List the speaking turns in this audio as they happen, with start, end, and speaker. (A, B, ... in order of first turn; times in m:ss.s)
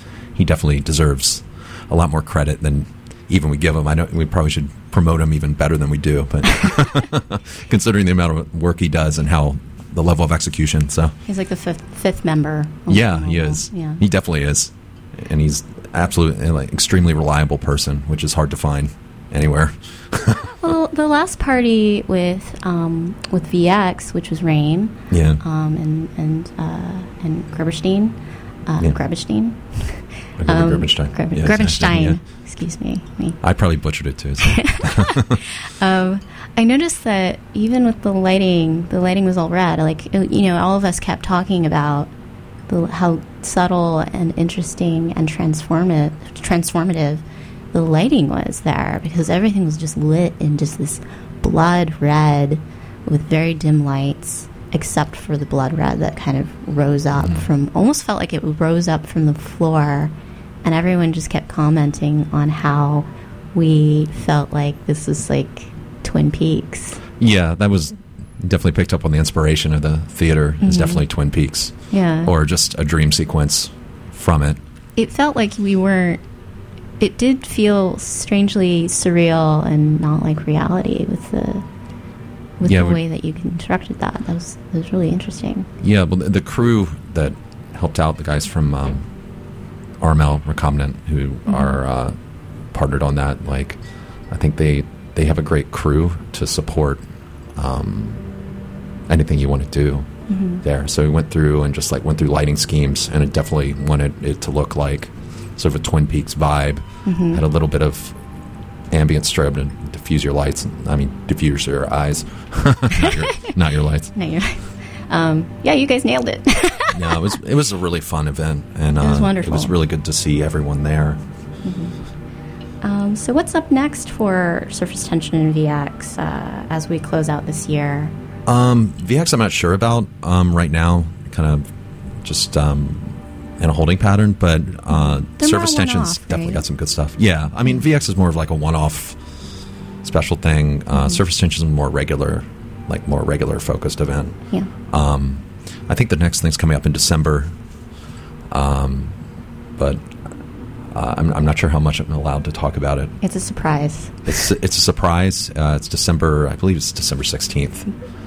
0:00.3-0:11.1 A
0:11.3-0:14.0 B
0:12.9-0:20.4 A
0:20.6-0:33.4 B
0:25.1-0:25.4 A
0:30.4-0:32.2 A
0:33.4-0:35.3 A
0:34.6-0:42.1 B
0:42.7-1:00.1 B
0:57.2-0:57.4 A
1:00.6-1:07.0 B
1:07.2-1:14.6 A
1:10.6-1:11.0 B
1:11.9-1:12.3 B
1:15.0-1:16.2 B
1:17.0-1:21.6 B
1:22.6-1:25.7 B
1:22.6-1:23.0 A
1:25.8-1:29.1 A
1:30.0-1:32.2 A
1:31.5-1:31.8 B
1:32.7-1:38.2 A
1:39.1-1:40.1 A
1:40.3-1:40.6 B
1:40.6-1:48.2 A
1:47.0-1:47.4 B
1:48.9-1:54.1 A
1:54.1-1:57.1 B
1:56.9-2:01.2 A
1:59.0-1:59.7 B
2:01.6-2:02.0 B
2:02.8-2:08.1 B
2:08.4-2:11.7 A
2:12.2-2:19.2 A
2:14.9-2:16.6 B
2:20.0-2:27.6 A
2:20.9-2:21.2 B
2:28.5-2:29.2 A
2:29.8-2:30.1 A
2:30.9-2:33.1 A
2:33.2-2:34.3 B
2:34.3-2:37.9 A